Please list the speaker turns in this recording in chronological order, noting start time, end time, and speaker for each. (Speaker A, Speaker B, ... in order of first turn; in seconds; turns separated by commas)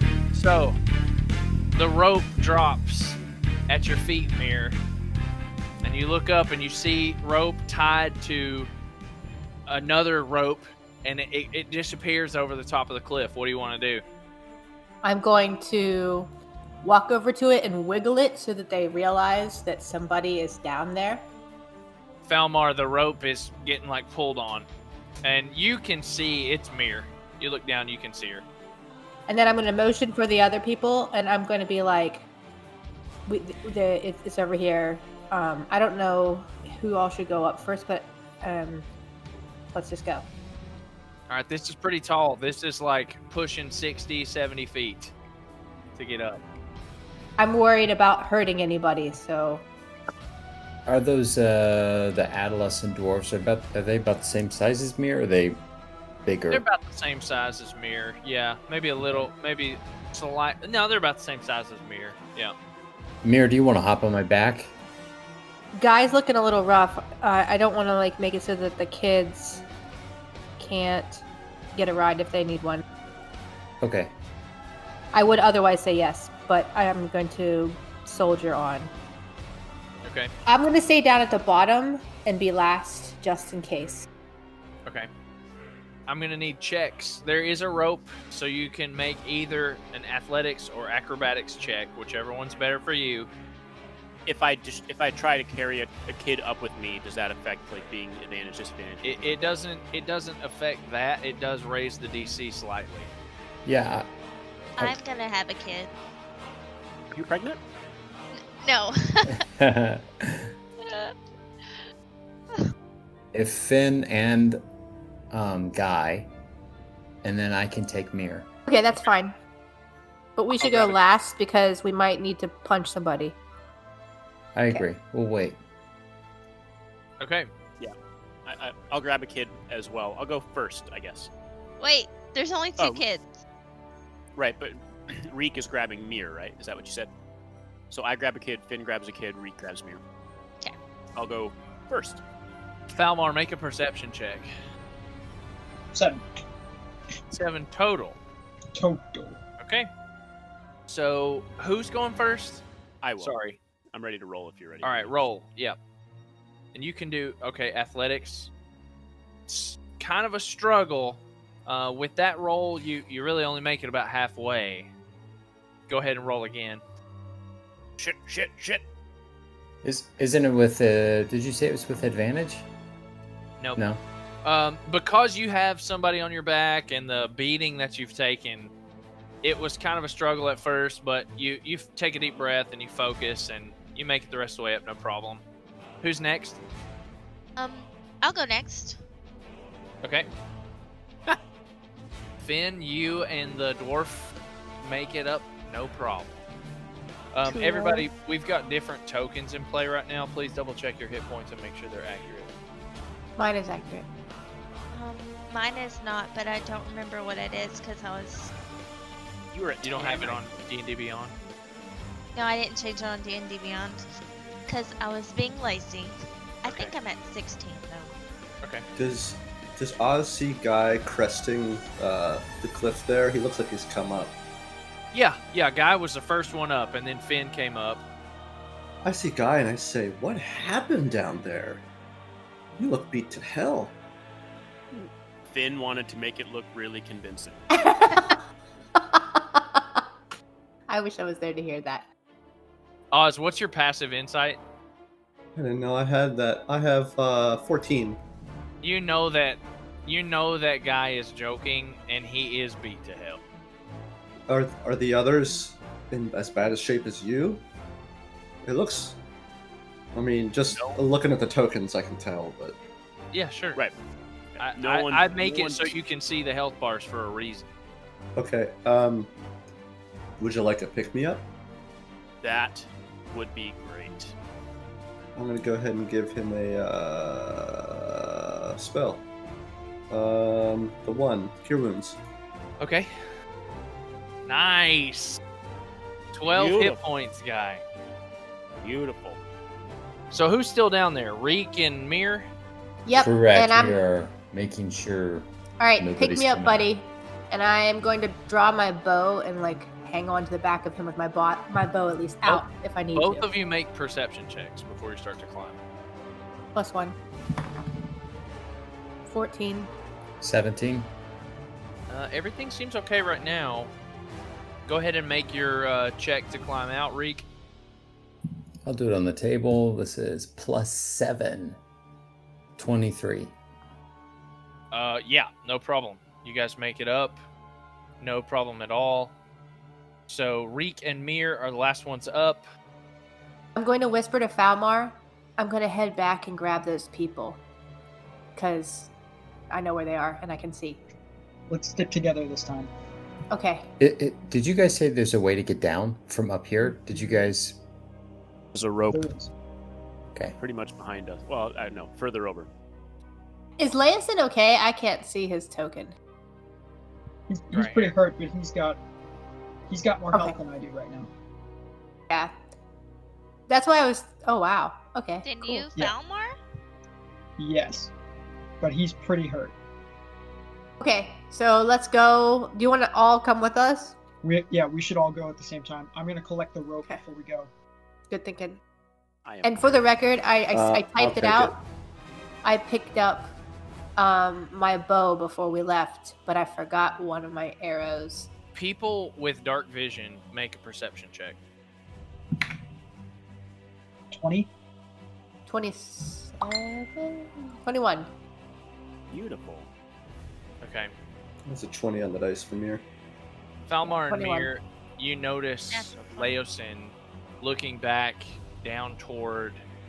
Speaker A: 0.3-0.8, Speaker A: 1.8-4.8, Speaker A: 5.8-8.7, Speaker A: 9.7-14.0, Speaker B: 15.0-16.3, Speaker B: 16.8-21.2, Speaker A: 22.2-24.7, Speaker A: 25.2-28.4, Speaker B: 29.3-32.2, Speaker B: 33.3-38.9, Speaker B: 39.7-40.3, Speaker A: 41.3-45.1, Speaker A: 46.0-46.4, Speaker B: 47.4-49.6, Speaker C: 50.9-55.6, Speaker C: 56.2-56.6, Speaker A: 56.5-62.5, Speaker C: 59.0-59.3, Speaker C: 63.2-64.7, Speaker B: 65.8-69.6, Speaker B: 70.6-71.2, Speaker B: 71.8-72.8, Speaker C: 73.8-74.1, Speaker B: 75.1-78.9, Speaker A: 80.0-80.3, Speaker B: 80.5-84.1, Speaker A: 86.1-93.3, Speaker D: 94.3-99.5, Speaker A: 99.0-103.1, Speaker C: 103.7-104.1, Speaker E: 104.8-105.9, Speaker D: 107.1-107.6, Speaker E: 108.3-109.4, Speaker C: 109.3-110.5, Speaker E: 110.8-111.8, Speaker C: 113.3-114.6, Speaker C: 115.3-116.3, Speaker C: 117.2-118.5, Speaker B: 118.7-119.3, Speaker B: 120.4-123.4, Speaker A: 120.7-120.9, Speaker C: 124.5-125.6, Speaker A: 127.2-127.5, Speaker D: 128.5-131.3, Speaker E: 131.8-133.3, Speaker D: 134.4-137.1, Speaker D: 137.9-140.0, Speaker D: 141.2-142.2, Speaker A: 142.9-144.5, Speaker F: 145.9-146.2, Speaker A: 147.3-148.2, Speaker F: 148.7-149.4, Speaker A: 149.6-149.9, Speaker A: 150.9-152.6, Speaker D: 153.0-153.4, Speaker A: 153.2-153.6, Speaker D: 153.9-155.3, Speaker A: 154.8-155.8, Speaker A: 156.7-158.5, Speaker A: 159.5-164.9, Speaker A: 165.9-166.8, Speaker D: 168.0-168.8, Speaker C: 169.8-172.7, Speaker C: 173.8-174.0, Speaker A: 174.4-178.7, Speaker A: 179.4-185.4, Speaker A: 186.0-186.6, Speaker E: 187.6-189.0, Speaker A: 190.0-190.3, Speaker A: 192.4-196.4, Speaker A: 197.3-202.5, Speaker B: 197.5-198.1, Speaker B: 203.4-204.1, Speaker E: 204.9-208.5, Speaker D: 209.5-210.6, Speaker A: 209.8-211.3, Speaker E: 212.3-214.1, Speaker E: 214.7-218.1, Speaker D: 216.7-216.9, Speaker G: 219.0-224.3, Speaker A: 225.1-228.0, Speaker G: 229.0-231.8, Speaker G: 232.8-233.9, Speaker D: 235.5-237.6, Speaker B: 237.7-238.4, Speaker B: 239.0-240.0, Speaker B: 240.9-242.1, Speaker A: 243.1-244.6, Speaker G: 245.6-248.2, Speaker A: 248.8-253.4, Speaker G: 254.5-257.6, Speaker G: 258.6-259.2, Speaker G: 260.1-262.8, Speaker D: 260.7-261.0, Speaker A: 263.3-263.8, Speaker D: 264.6-265.9, Speaker A: 264.6-267.7, Speaker G: 268.4-269.3, Speaker G: 270.4-271.4, Speaker D: 272.4-274.3, Speaker G: 275.4-279.2, Speaker G: 280.1-282.2, Speaker A: 282.8-283.1, Speaker A: 284.5-285.4, Speaker A: 286.3-287.8, Speaker D: 286.5-287.0, Speaker D: 288.8-289.4, Speaker A: 290.3-292.5, Speaker B: 293.1-294.0, Speaker C: 293.2-296.9, Speaker B: 295.8-303.5, Speaker A: 303.1-305.8, Speaker B: 306.8-307.2, Speaker B: 309.3-309.9, Speaker C: 310.4-311.1, Speaker A: 312.1-313.9, Speaker A: 314.9-317.5, Speaker C: 318.9-321.8, Speaker C: 322.8-323.6, Speaker A: 324.9-327.4, Speaker A: 328.2-329.3, Speaker A: 330.3-332.7, Speaker B: 333.8-337.6, Speaker B: 338.6-339.1, Speaker B: 339.7-341.0, Speaker F: 341.7-342.9, Speaker B: 343.5-343.9, Speaker C: 344.0-347.8, Speaker F: 346.8-347.5, Speaker D: 348.7-349.3, Speaker F: 349.1-349.5, Speaker D: 350.6-352.7, Speaker B: 353.8-356.1, Speaker F: 357.5-359.0, Speaker A: 357.7-358.1, Speaker F: 359.9-361.3, Speaker B: 363.7-365.9, Speaker E: 365.4-366.6, Speaker F: 367.6-368.1, Speaker F: 368.8-369.8, Speaker B: 371.0-374.2, Speaker F: 374.4-377.7, Speaker B: 378.3-378.8, Speaker D: 379.4-380.1, Speaker B: 379.6-381.7, Speaker G: 380.7-381.8, Speaker B: 382.6-383.5, Speaker B: 384.2-388.5, Speaker A: 388.8-391.6, Speaker F: 394.3-394.7, Speaker B: 395.7-398.3, Speaker D: 399.3-399.9, Speaker A: 400.8-401.1, Speaker G: 401.7-403.0, Speaker A: 403.9-409.8, Speaker B: 404.0-404.7, Speaker E: 405.9-406.6